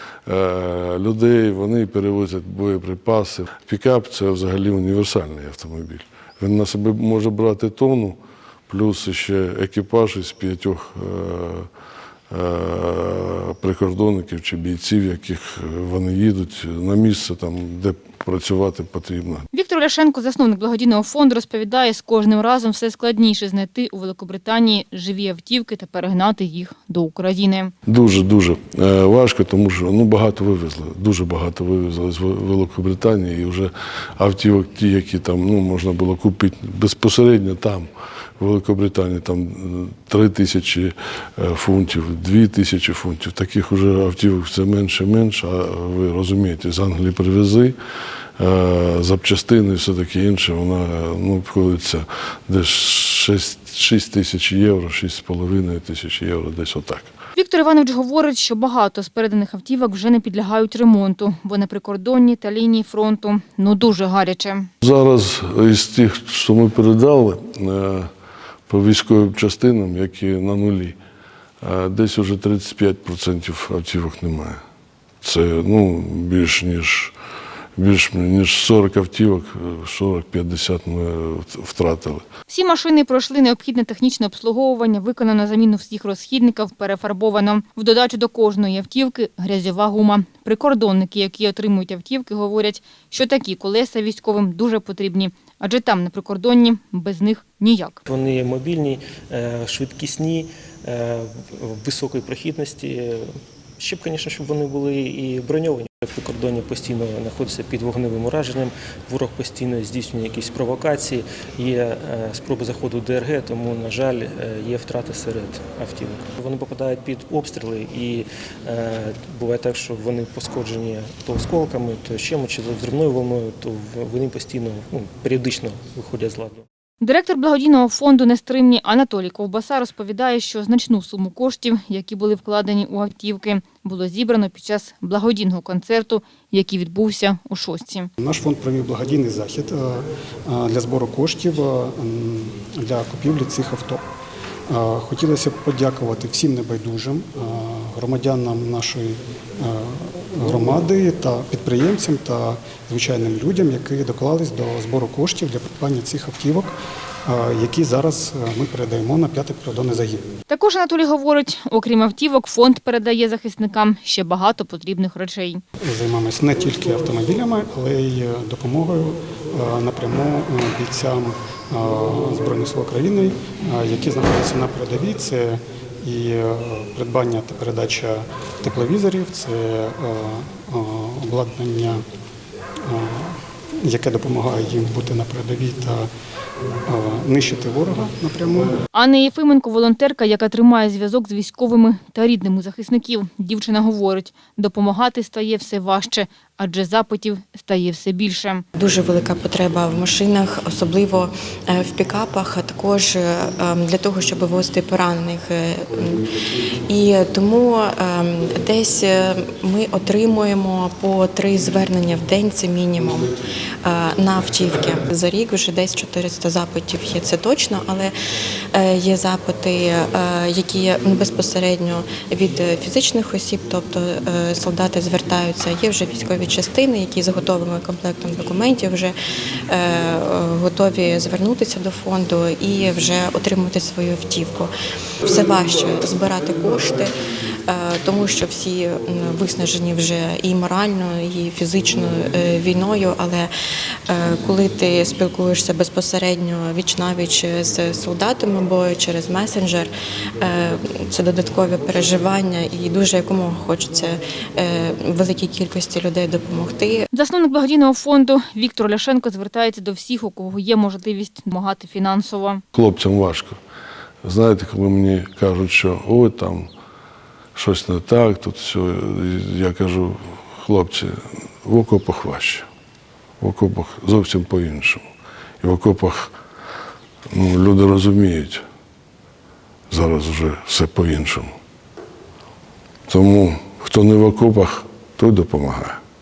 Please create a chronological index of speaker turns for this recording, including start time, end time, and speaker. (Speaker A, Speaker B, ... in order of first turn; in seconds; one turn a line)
Speaker A: 0.3-11.7
Speaker A: 12.3-19.5
Speaker B: 19.5-27.7
Speaker A: 27.9-47.8
Speaker A: 48.4-57.1
Speaker B: 57.4-64.7
Speaker A: 64.8-68.1
Speaker A: 68.7-71.0
Speaker A: 71.6-74.6
Speaker A: 75.2-77.2
Speaker A: 77.8-82.2
Speaker B: 82.5-98.0
Speaker C: 98.1-126.7
Speaker B: 127.0-138.1
Speaker D: 138.2-144.0
Speaker D: 144.7-156.7
Speaker D: 157.3-160.3
Speaker B: 160.5-165.6
Speaker D: 165.8-182.0
Speaker D: 182.8-186.1
Speaker D: 186.9-188.8
Speaker B: 188.9-198.6
Speaker E: 198.8-218.2
Speaker E: 218.7-229.2
Speaker E: 229.7-234.7
Speaker E: 235.2-243.5
Speaker E: 244.1-257.1
Speaker B: 257.1-262.6
Speaker A: 262.7-263.6
Speaker A: 264.2-266.7
Speaker A: 267.6-272.7
Speaker A: 273.4-275.0
Speaker A: 275.6-276.4
Speaker A: 277.3-278.6
Speaker A: 279.9-281.5
Speaker A: 283.1-286.0